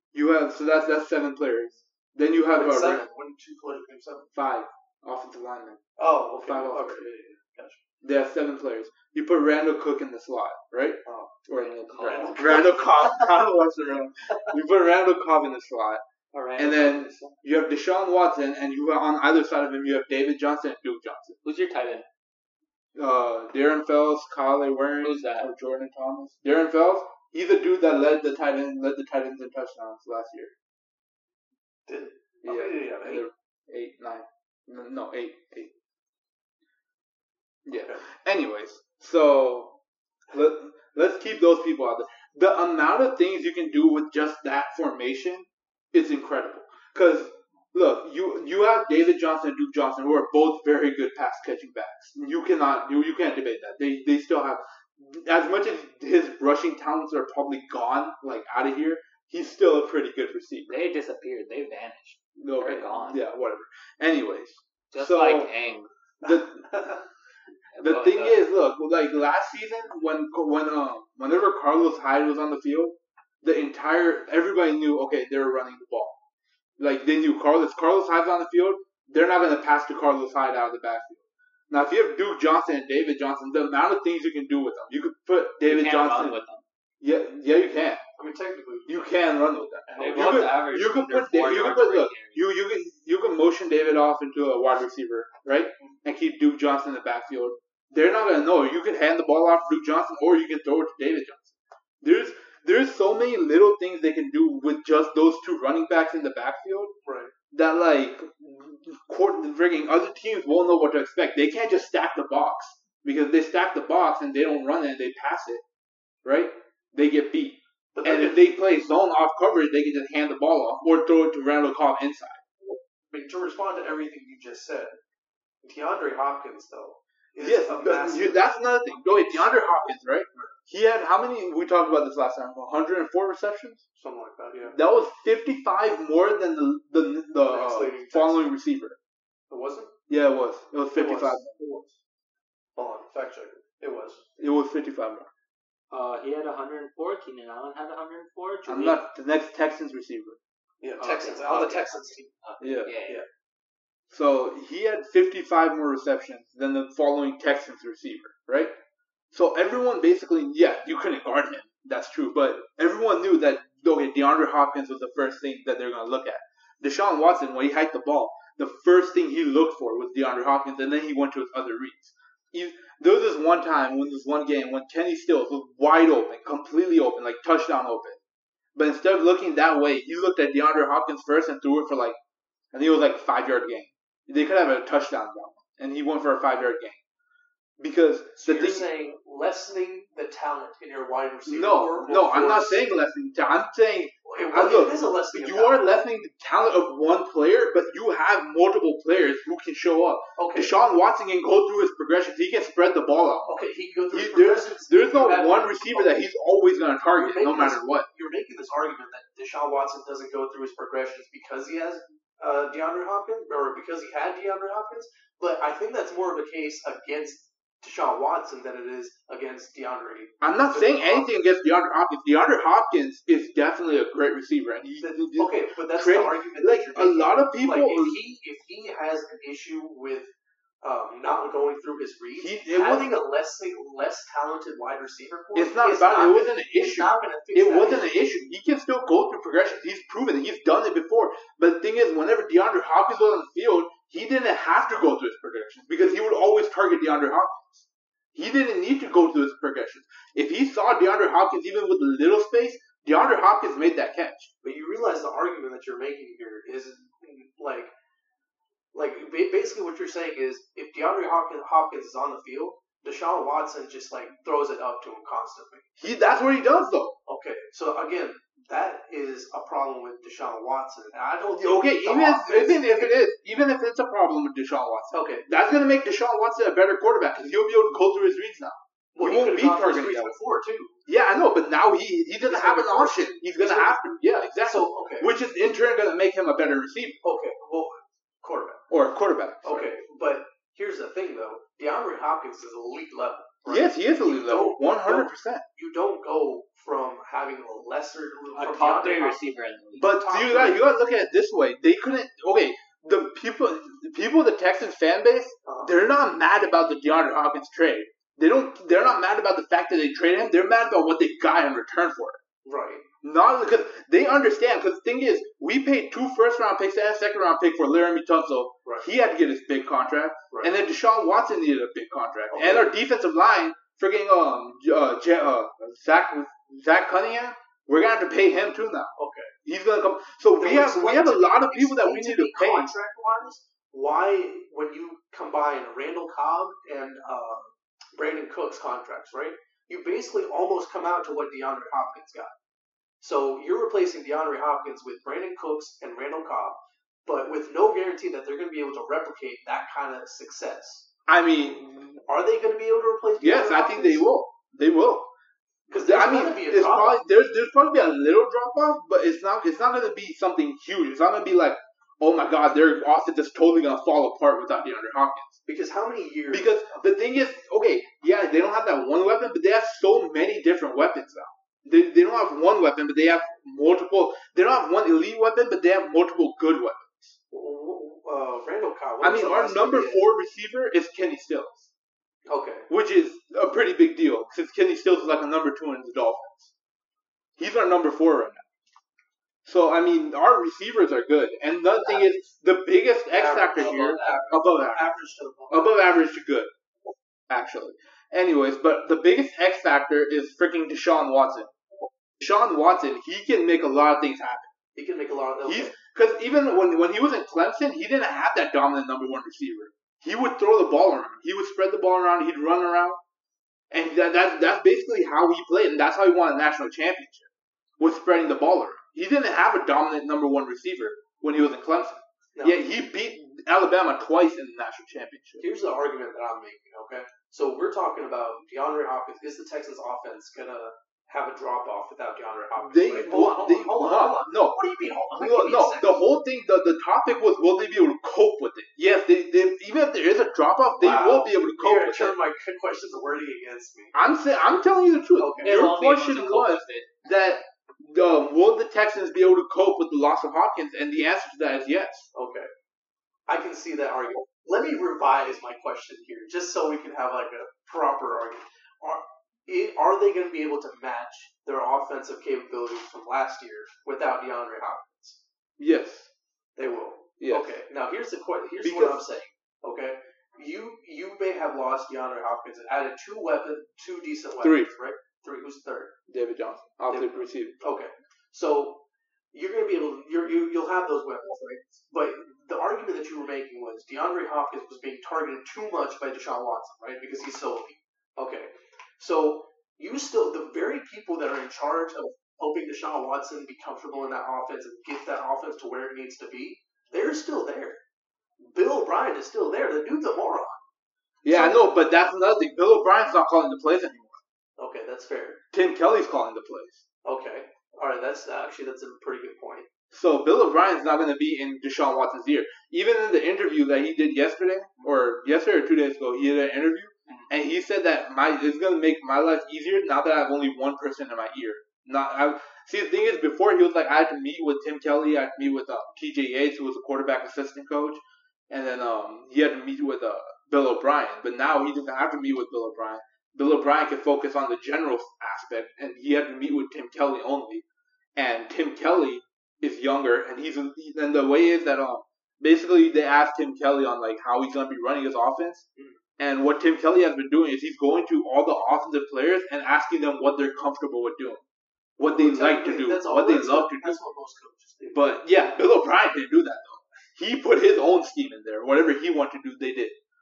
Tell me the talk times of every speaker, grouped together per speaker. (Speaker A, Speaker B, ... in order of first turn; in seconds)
Speaker A: 0.1-3.0, 4.3-5.8, 6.4-7.1, 8.0-16.0, 16.6-21.4, 22.9-30.5, 32.4-35.7, 37.6-39.8, 40.3-60.8, 62.4-65.5, 66.2-66.9, 67.8-76.2, 76.8-86.4, 87.0-88.0, 88.9-106.9, 107.5-115.6, 116.2-122.4, 127.4-133.8, 134.6-139.0, 140.1-141.6, 144.4-145.3, 148.7-150.4, 152.6-152.9, 154.1-158.7, 159.3-178.2, 178.7-182.2, 182.7-187.0, 187.8-188.9, 191.4-208.1, 220.4-228.2, 232.4-233.1, 235.5-254.5, 266.0-267.2, 271.5-280.4, 281.1-287.2, 288.9-289.9, 293.6-295.6, 300.0-312.4, 313.2-329.1, 329.6-332.9, 351.3-352.2, 353.4-355.3, 355.9-365.6, 366.5-377.4, 379.2-381.9, 382.9-386.7, 387.6-388.6, 389.6-395.1, 395.7-396.7, 397.5-401.7, 402.4-404.7, 405.6-413.2, 413.9-425.6, 432.8-434.8, 435.3-442.4, 444.1-452.3, 465.8-466.3, 467.4-467.8, 468.8-469.2, 474.6-474.9, 476.3-477.8, 501.4-504.4, 505.7-507.0, 510.1-537.8, 538.4-545.9, 546.4-551.6, 552.2-554.2, 555.0-560.1
Speaker B: 2.5-4.3, 6.0-7.8, 11.0-11.4, 12.0-12.9, 31.9-33.2, 37.7-38.0, 66.7-67.0, 88.2-89.0, 89.9-90.4, 107.0-107.3, 117.9-118.5, 123.1-125.0, 125.6-128.5, 129.0-129.4, 134.0-134.8, 137.5-138.5, 139.5-139.9, 140.9-141.9, 142.8-144.2, 150.8-152.3, 188.3-192.8, 194.2-195.8, 200.4-200.7, 203.5-206.2, 207.2-221.3, 225.0-230.3, 230.8-238.3, 254.6-257.9, 258.9-265.9, 267.3-273.2, 275.1-275.4, 279.1-281.0, 282.4-285.3, 287.2-288.8, 289.6-299.4, 300.0-300.8, 305.6-305.9, 312.6-313.0, 322.5-322.9, 329.2-329.5, 330.6-342.5, 343.2-351.1, 352.2-354.3, 355.9-357.2, 365.6-367.0, 377.5-380.2, 382.5-382.9, 393.3-395.9, 404.9-405.9, 422.5-422.8, 425.6-436.3, 441.0-444.1, 445.4-445.7, 452.3-452.7, 453.5-465.4, 466.8-476.1, 477.1-498.0, 498.6-500.8, 501.4-501.9, 504.8-505.6, 507.2-509.9, 552.3-555.2
Speaker C: 11.5-12.8, 16.3-17.4, 21.4-22.1, 25.0-25.5, 60.7-63.2, 64.9-65.9, 67.7-68.4, 85.7-86.6, 89.9-92.5, 145.9-149.0, 151.0-153.2, 298.5-300.1, 445.6-447.2